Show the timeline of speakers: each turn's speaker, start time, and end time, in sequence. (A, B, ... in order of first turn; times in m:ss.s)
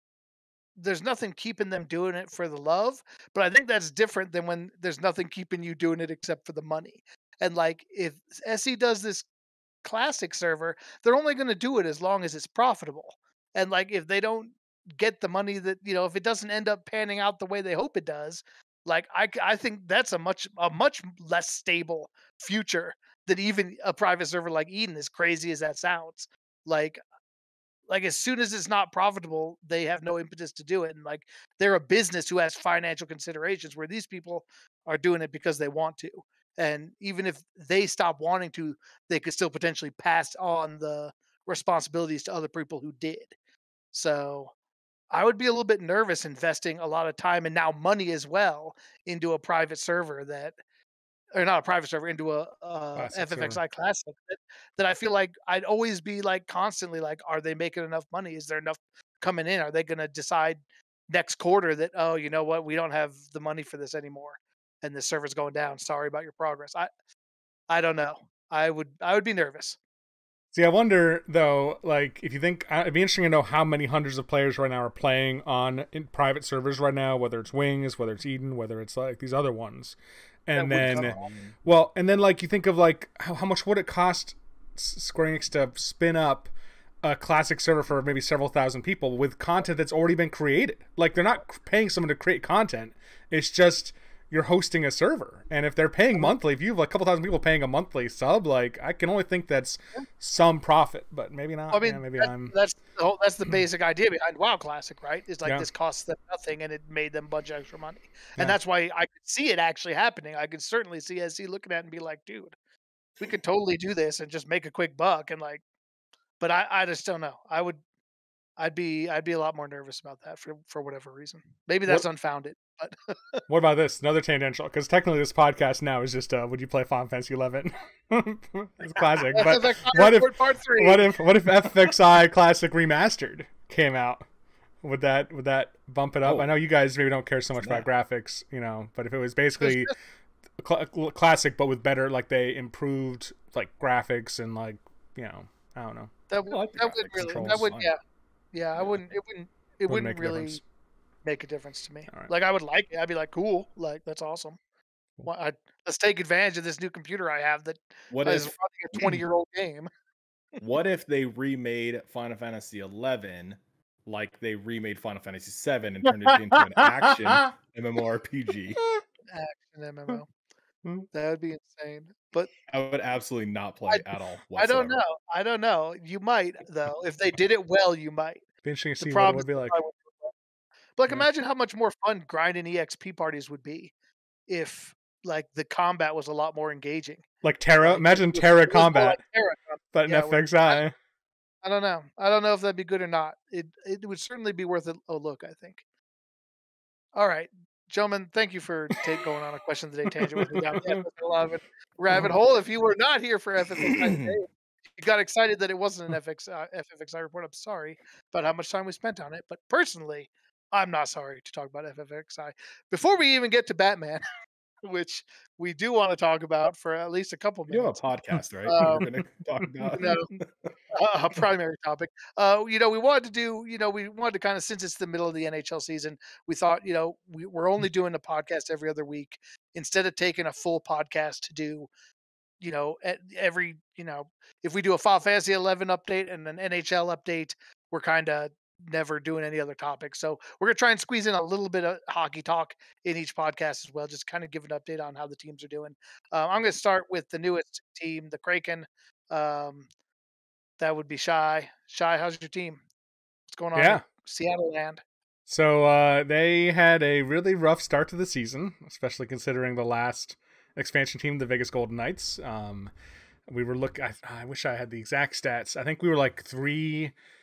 0:00.8-0:09.3 A
0:09.8-0:27.0 A
0:27.9-0:43.3 A
0:43.9-0:44.5 A
0:45.1-0:50.6 A
0:51.3-1:06.9 A
0:53.0-0:53.6 B
1:07.7-1:09.8 A
1:10.5-1:20.0 B
1:20.5-1:26.5 B
1:20.6-1:21.2 A
1:20.7-1:21.5 C
1:27.0-1:42.6 B
1:41.7-1:52.5 A
1:53.2-1:55.6 A
1:56.4-1:57.8 A
1:58.6-2:03.4 A
2:03.5-2:14.2 B
2:09.4-2:11.0 A
2:14.8-2:19.9 B
2:16.2-2:16.5 C
2:17.6-2:17.8 C
2:19.6-2:19.9 A
2:20.6-2:26.1 B
2:26.3-2:28.0 A
2:26.5-2:27.9 C
2:28.5-2:30.6 A
2:29.9-2:30.6 B
2:31.2-2:34.6 A
2:35.3-2:39.9 A
2:38.1-2:38.5 C
2:40.6-2:48.8 C
2:49.3-2:50.3 A
2:51.1-2:52.5 A
2:52.7-2:55.0 C
2:54.6-2:58.4 A
2:58.6-2:59.8 B
2:59.0-3:00.3 A
3:01.0-3:03.9 A
3:04.5-3:07.2 A
3:07.4-3:09.2 B
3:07.8-3:10.8 A
3:09.9-3:10.9 B
3:11.6-3:15.8 A
3:17.2-3:24.5 A
3:23.9-3:24.4 C
3:25.0-3:34.2 A
3:34.8-3:38.0 A
3:37.7-3:40.7 C
3:38.7-3:39.0 A
3:39.9-3:40.3 A
3:40.9-3:51.9 A
3:52.6-4:09.9 A
4:10.8-4:12.8 A
4:13.5-4:15.0 A
4:13.8-4:14.0 B
4:15.5-4:22.9 B
4:23.5-4:27.1 B